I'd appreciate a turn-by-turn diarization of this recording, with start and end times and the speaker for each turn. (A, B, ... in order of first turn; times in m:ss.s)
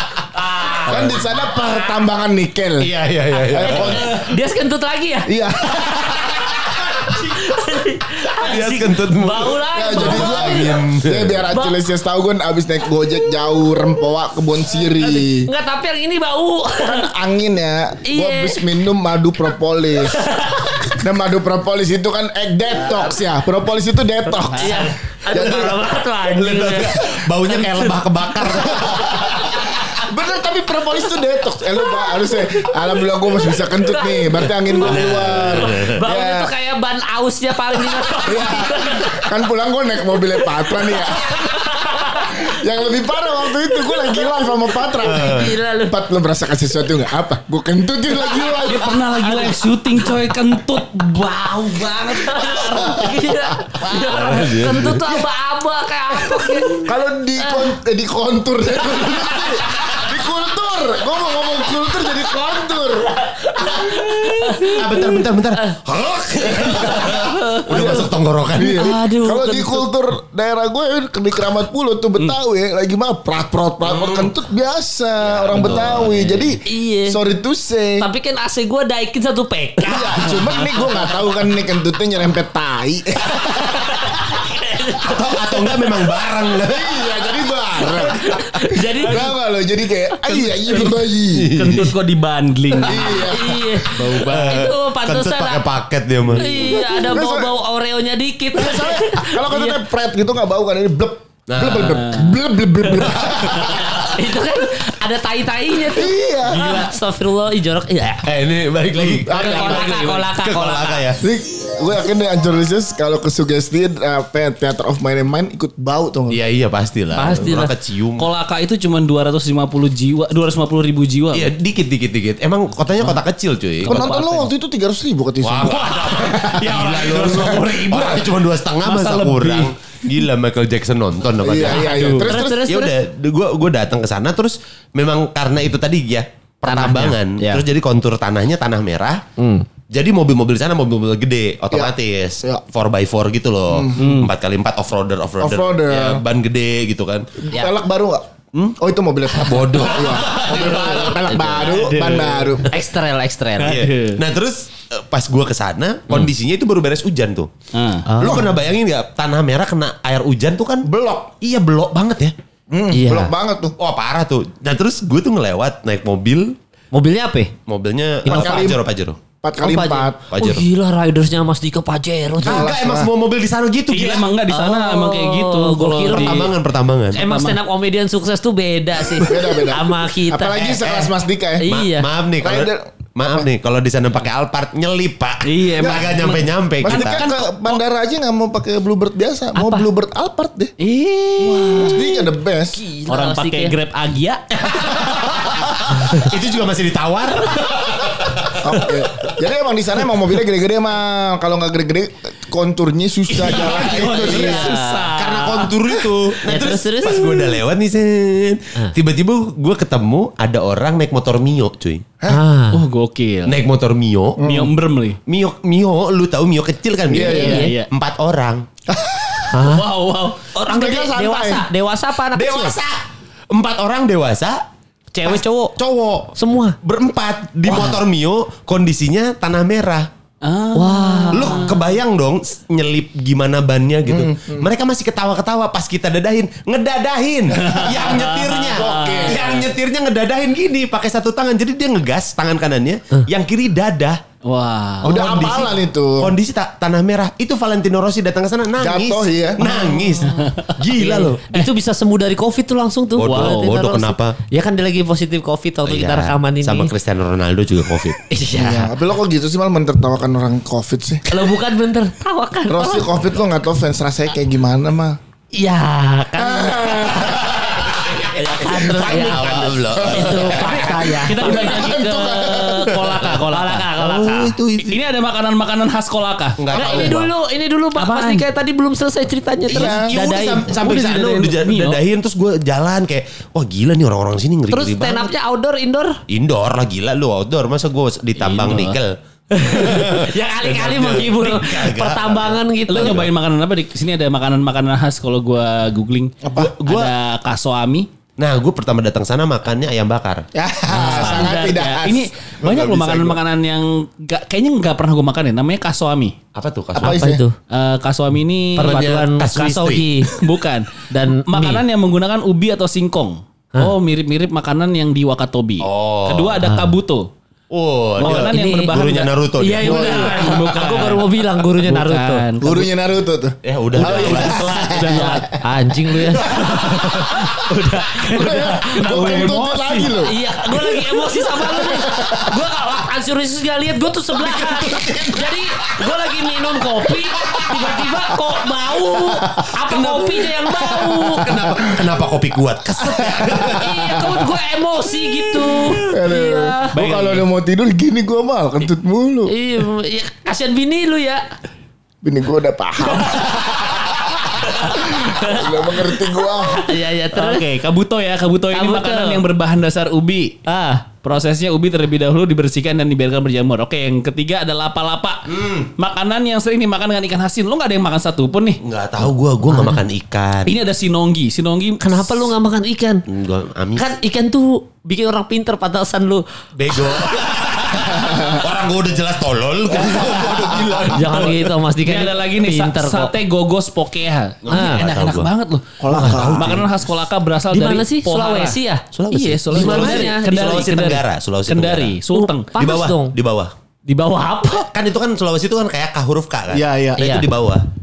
0:00.4-0:01.1 A
0:00.8-0:02.9 B
0:00.9-0:01.2 C
0:02.8-0:04.2 C
0:03.5-0:04.3 B
0:03.6-0:10.8 A
0:05.3-0:06.3 B
0:08.4-0:11.5 C
0:09.7-0:15.5 B
0:11.5-0:11.8 A
0:15.0-0:17.1 A
0:16.8-0:20.3 B
0:18.1-0:18.7 A
0:20.0-0:21.0 A
0:21.0-0:25.8 B
0:24.3-0:24.9 D
0:24.6-0:29.3 A
0:25.4-0:29.6 C
0:29.9-0:36.5 B
0:31.9-0:32.7 A
0:33.6-0:39.3 A
0:34.8-0:36.0 C
0:38.1-0:49.6 B
0:40.4-0:42.6 A
0:43.5-0:46.0 A
0:45.0-0:45.5 C
0:48.6-0:51.5 D
0:50.8-0:57.7 A
0:52.4-0:53.4 B
0:53.9-0:55.1 C
0:56.8-1:03.2 B
0:58.9-1:00.0 A
1:03.1-1:05.8 A
1:04.6-1:08.9 C
1:06.4-1:18.1 B
1:06.5-1:08.1 A
1:08.6-1:09.9 A
1:13.9-1:14.3 C
1:15.2-1:16.4 C
1:15.5-1:16.3 D
1:16.6-1:17.2 A
1:18.0-1:21.1 A
1:19.8-1:24.1 B
1:20.3-1:20.9 D
1:23.4-1:26.0 A
1:25.0-1:27.2 C
1:26.6-1:31.6 B
1:27.8-1:29.4 A
1:30.7-1:34.7 D
1:31.3-1:31.9 C
1:32.8-1:33.7 B
1:32.9-1:35.7 A
1:34.0-1:36.7 C
1:36.3-1:39.8 A
1:36.6-1:37.5 B
1:38.5-1:44.1 B
1:41.5-1:42.0 C
1:41.8-1:42.4 D
1:43.0-1:44.2 C
1:43.8-1:48.3 A
1:45.8-1:46.9 B
1:48.2-1:51.2 C
1:49.0-1:50.3 D
1:49.2-1:49.9 B
1:49.3-1:51.1 A
1:51.2-1:56.4 B
1:56.3-1:58.3 C
1:57.1-1:57.7 A
1:58.2-2:01.5 D
2:01.3-2:04.1 C
2:03.8-2:04.5 D
2:03.8-2:06.7 B
2:05.4-2:19.2 C
2:05.6-2:09.7 D
2:11.4-2:12.7 B
2:11.6-2:12.3 D
2:12.3-2:13.0 A
2:16.7-2:17.6 A
2:19.4-2:19.7 A
2:19.9-2:27.4 C
2:21.7-2:22.6 B
2:23.7-2:24.1 B
2:24.0-2:24.3 D
2:25.4-2:26.2 B
2:27.4-2:32.8 B
2:29.4-2:31.2 C
2:30.5-2:31.9 A
2:30.5-2:32.6 D
2:32.7-2:33.8 A
2:33.6-2:34.2 D
2:33.6-2:37.5 C
2:37.7-2:38.1 D
2:38.1-2:38.5 A
2:38.2-2:40.9 C
2:38.2-2:38.5 B
2:40.8-2:41.3 B
2:41.4-2:42.3 C
2:42.7-2:43.8 B
2:42.9-2:43.3 A
2:43.8-2:46.6 C
2:46.9-2:47.5 A
2:47.7-2:49.2 C
2:48.2-2:48.8 B
2:48.3-2:48.6 A
2:49.4-2:50.2 B
2:49.6-2:52.7 A
2:50.3-2:50.6 C
2:52.4-2:53.1 B
2:52.4-2:54.3 C
2:53.9-2:56.5 D
2:54.5-2:56.5 A
2:56.1-2:57.2 C
2:57.1-2:57.6 D
2:57.1-3:01.1 A
2:59.0-3:01.7 B
3:01.6-3:02.1 A
3:01.6-3:07.2 C
3:02.4-3:02.9 B
3:05.4-3:07.8 D
3:05.8-3:06.1 B
3:06.8-3:10.7 B
3:09.6-3:09.8 A
3:10.8-3:12.0 D
3:11.4-3:13.8 A
3:11.4-3:12.8 B
3:13.1-3:14.6 D
3:14.6-3:19.3 C
3:18.6-3:24.8 B
3:23.3-3:26.1 D
3:23.4-3:32.0 C
3:24.4-3:25.1 A
3:26.5-3:27.6 A
3:32.3-3:32.8 A
3:32.7-3:33.6 D
3:33.5-3:34.4 C
3:34.4-3:34.7 B
3:34.4-3:35.2 D
3:35.3-3:38.7 C
3:37.1-3:37.7 B
3:37.2-3:37.9 D
3:37.2-3:37.7 A
3:38.9-3:39.8 B
3:39.5-3:39.8 A
3:39.6-3:40.5 D
3:40.5-3:42.8 A
3:40.6-3:41.7 B
3:42.3-3:44.6 C
3:45.1-3:45.7 A
3:45.2-3:46.3 B
3:46.4-3:46.8 A
3:46.8-3:50.1 C
3:47.7-3:48.0 A
3:50.4-3:51.8 D
3:50.7-3:51.8 A
3:51.3-4:04.2 C
3:54.1-3:54.7 B
3:57.5-3:59.7 D
3:58.6-3:59.4 B
4:04.4-4:05.2 D
4:05.0-4:06.3 B
4:05.0-4:11.5 C
4:08.8-4:09.6 B
4:09.7-4:10.2 A
4:10.3-4:10.8 D
4:10.9-4:16.9 A
4:13.2-4:14.4 C
4:13.2-4:13.8 D
4:15.9-4:18.2 C
4:18.3-4:18.9 A
4:18.5-4:21.5 B
4:21.3-4:23.1 A
4:22.7-4:25.2 B
4:25.5-4:27.6 A
4:26.4-4:28.2 B
4:27.4-4:31.6 C
4:28.3-4:34.6 A
4:29.9-4:32.7 B
4:31.0-4:34.0 D
4:34.0-4:35.0 C
4:34.8-4:37.2 D
4:36.6-4:37.3 C
4:36.7-4:40.7 A
4:38.0-4:38.5 D
4:39.7-4:45.3 C
4:39.7-4:40.1 B
4:40.7-4:42.0 D
4:44.7-4:46.2 A
4:46.3-4:53.3 C
4:48.4-4:49.0 D
4:49.5-4:53.3 A
4:52.9-4:58.1 D
4:56.4-4:56.8 B
4:56.6-4:57.1 C
4:58.4-5:00.5 C
5:00.5-5:03.3 B
5:00.9-5:06.4 D
5:01.0-5:01.5 C
5:06.6-5:07.2 C
5:07.0-5:07.4 B
5:07.0-5:07.6 A
5:07.7-5:09.1 D
5:08.8-5:10.1 C
5:08.8-5:10.4 A
5:10.4-5:17.3 D
5:11.1-5:11.8 A
5:15.8-5:16.6 C
5:16.6-5:16.9 A
5:17.7-5:20.4 C
5:18.2-5:22.9 D
5:18.2-5:18.9 A
5:19.6-5:22.5 A
5:19.8-5:20.7 B
5:22.6-5:25.6 B
5:23.6-5:25.0 C
5:24.0-5:25.5 D
5:25.6-5:29.5 A
5:26.5-5:30.2 D
5:28.3-5:30.4 B
5:30.2-5:41.6 A
5:31.6-5:32.5 B
5:34.5-5:35.5 C
5:37.4-5:38.0 C
5:39.2-5:39.7 B
5:39.9-5:44.4 C
5:40.7-5:42.1 B
5:43.0-5:44.5 B
5:43.6-5:46.9 A
5:46.0-5:49.5 B
5:46.9-5:47.5 D
5:49.5-5:51.4 A
5:52.2-5:56.8 B
5:53.2-5:54.1 A
5:54.6-5:57.7 A
5:57.3-6:00.6 D
5:58.7-5:59.4 A
6:00.7-6:01.1 A
6:01.2-6:08.8 D
6:05.5-6:05.9 C
6:08.8-6:10.8 C
6:10.7-6:12.3 D
6:12.0-6:13.2 A
6:13.3-6:14.1 C
6:14.0-6:17.6 A
6:16.8-6:21.7 C
6:18.1-6:18.6 B
6:19.9-6:21.4 B
6:21.1-6:23.3 A
6:22.0-6:28.8 D
6:24.6-6:25.5 C
6:24.7-6:25.0 A
6:26.0-6:26.9 B
6:26.1-6:26.9 C
6:27.7-6:29.0 A
6:29.1-6:32.2 C
6:29.3-6:32.7 D
6:29.7-6:31.2 A
6:32.3-6:33.3 A
6:32.8-6:33.7 C
6:34.1-6:34.9 A
6:34.9-6:37.8 C
6:36.7-6:37.4 B
6:37.2-6:37.5 A